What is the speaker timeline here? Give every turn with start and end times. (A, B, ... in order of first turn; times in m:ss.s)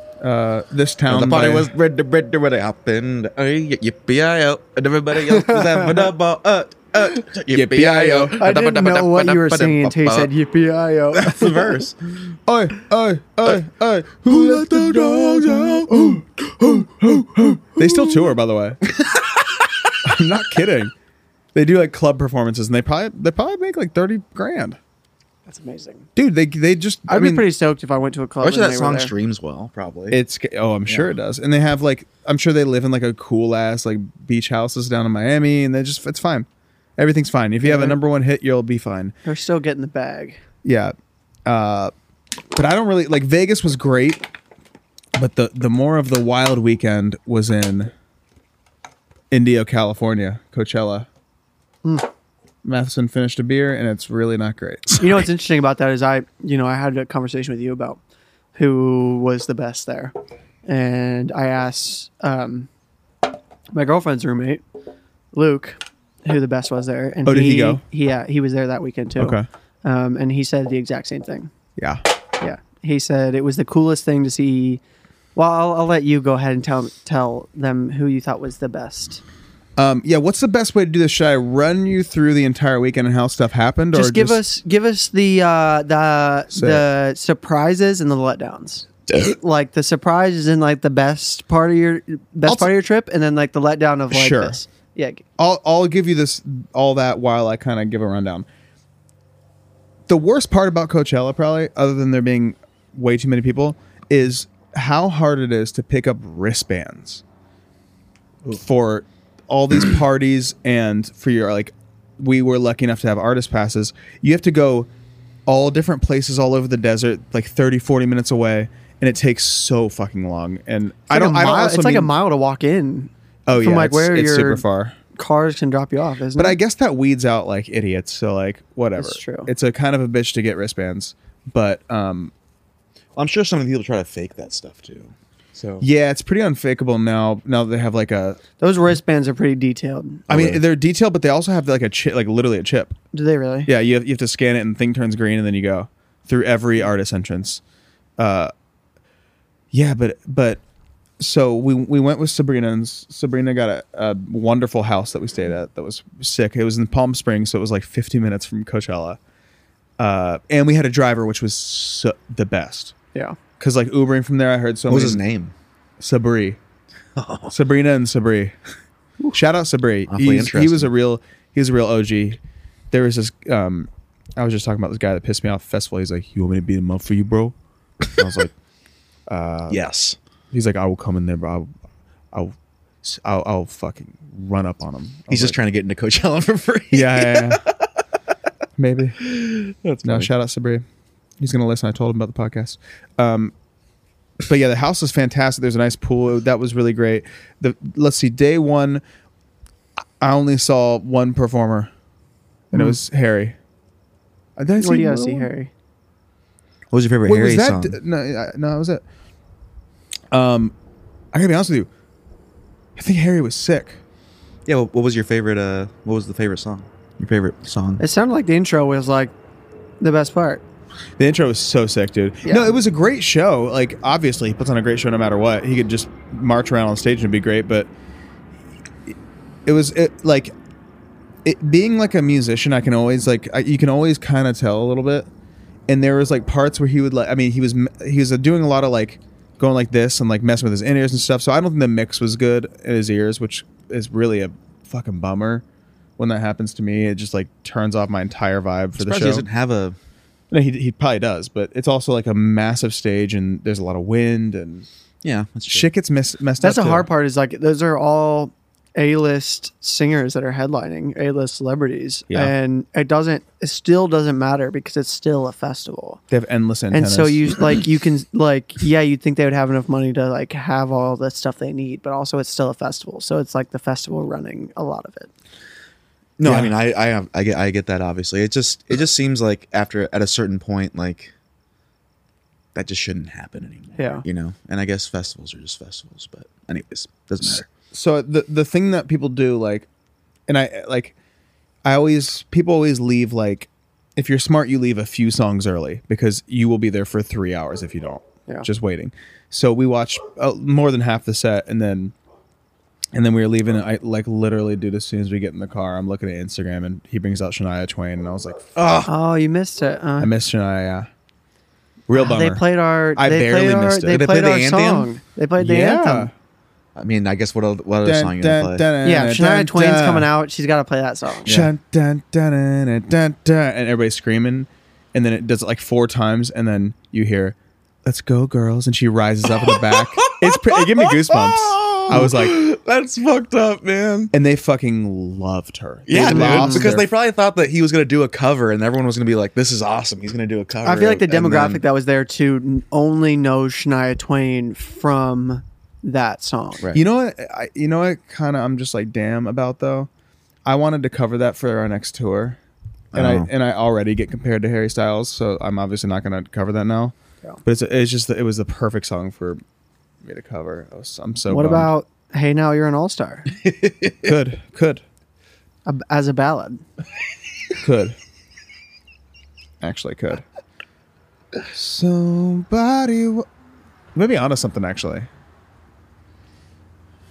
0:00.2-0:01.7 A
0:01.1-0:10.3 B
0:05.2-0:06.1 C
0:07.5-0:08.4 A
0:08.4-0:11.8 C
0:11.1-0:12.3 B
0:12.5-0:18.8 A
0:14.2-0:18.2 B
0:18.9-0:19.9 B
0:20.0-0:20.9 A
0:21.5-0:24.8 A
0:25.4-0:26.1 C
0:26.2-0:27.5 A
0:27.1-0:29.1 C
0:28.4-0:30.2 B
0:30.1-0:39.1 A
0:37.6-0:38.0 C
0:39.2-0:40.4 C
0:40.6-0:41.9 A
0:42.5-0:44.2 A
0:45.1-0:47.9 A
0:49.3-0:51.1 A
0:52.6-0:55.0 A
0:55.0-0:58.0 C
0:58.5-1:00.1 C
1:00.6-1:02.7 C
1:03.7-1:04.6 C
1:05.3-1:11.5 C
1:07.2-1:07.8 A
1:09.2-1:09.5 A
1:11.8-1:12.0 A
1:12.4-1:14.8 C
1:15.3-1:19.2 C
1:19.8-1:24.4 A
1:23.9-1:35.2 C
1:26.5-1:26.8 A
1:32.4-1:32.7 A
1:34.1-1:34.6 A
1:35.4-1:38.4 A
1:40.1-1:47.2 A
1:48.5-1:54.9 A
1:55.5-2:02.1 A
2:01.1-2:04.6 C
2:03.5-2:05.0 A
2:05.1-2:06.6 C
2:06.4-2:12.3 A
2:09.0-2:09.5 C
2:13.2-2:15.8 B
2:15.8-2:18.4 A
2:18.6-2:20.3 C
2:20.3-2:20.6 B
2:20.3-2:23.0 A
2:23.1-2:23.7 C
2:23.6-2:27.6 A
2:28.2-2:28.5 A
2:29.7-2:30.6 A
2:31.2-2:39.2 A
2:40.0-2:42.9 A
2:43.6-2:45.2 A
2:44.9-2:45.5 B
2:46.0-2:46.6 A
2:47.2-2:47.5 B
2:47.5-2:48.5 A
2:49.3-2:52.4 A
2:50.1-2:50.9 B
2:52.9-2:57.5 A
2:58.1-2:58.5 B
2:58.2-2:58.5 A
2:59.3-2:59.8 A
2:59.7-3:00.2 B
3:00.5-3:01.7 A
3:02.3-3:05.6 A
3:05.3-3:07.8 B
3:06.9-3:07.6 A
3:08.8-3:09.2 A
3:09.2-3:10.3 B
3:10.0-3:10.8 A
3:11.4-3:13.5 A
3:14.5-3:19.0 A
3:20.2-3:21.9 A
3:22.7-3:23.6 A
3:24.6-3:25.5 A
3:24.8-3:25.7 C
3:26.9-3:28.0 B
3:27.2-3:29.0 A
3:30.3-3:30.7 A
3:31.3-3:31.9 A
3:33.0-3:34.0 A
3:34.6-3:38.0 B
3:38.0-3:39.3 C
3:40.0-3:40.6 C
3:41.2-3:47.9 A
3:42.4-3:42.7 C
3:49.1-3:50.5 A
3:51.4-3:55.3 A
3:55.9-4:05.6 A
4:06.2-4:09.4 A
4:09.0-4:10.0 B
4:10.5-4:14.9 A
4:15.2-4:15.9 B
4:15.7-4:17.1 A
4:16.6-4:26.2 C
4:26.3-4:27.5 A
4:26.9-4:35.3 C
4:36.4-4:41.3 B
4:36.4-4:36.7 A
4:42.7-4:47.6 B
4:44.0-4:44.2 C
4:47.4-4:49.9 A
4:50.5-4:51.1 A
4:51.8-5:02.1 A
5:03.1-5:08.7 A
5:08.8-5:09.1 B
5:09.0-5:10.3 C
5:10.2-5:11.1 A
5:12.1-5:14.2 A
5:12.1-5:16.3 C
5:14.1-5:15.1 B
5:15.6-5:16.3 A
5:17.0-5:18.8 B
5:18.0-5:20.3 A
5:19.0-5:21.5 C
5:21.4-5:21.7 B
5:21.4-5:32.6 A
5:29.5-5:34.3 B
5:34.3-5:37.1 A
5:36.1-5:41.8 B
5:36.2-5:36.9 C
5:40.8-5:46.8 C
5:46.9-5:50.1 A
5:50.6-5:52.6 A
5:53.1-5:53.5 B
5:53.1-5:59.6 A
6:00.2-6:01.9 A
6:01.5-6:03.5 C
6:03.6-6:04.3 B
6:04.2-6:05.0 A
6:05.8-6:06.8 C
6:07.8-6:08.2 A
6:09.8-6:10.4 A
6:11.6-6:13.5 A
6:14.1-6:15.3 A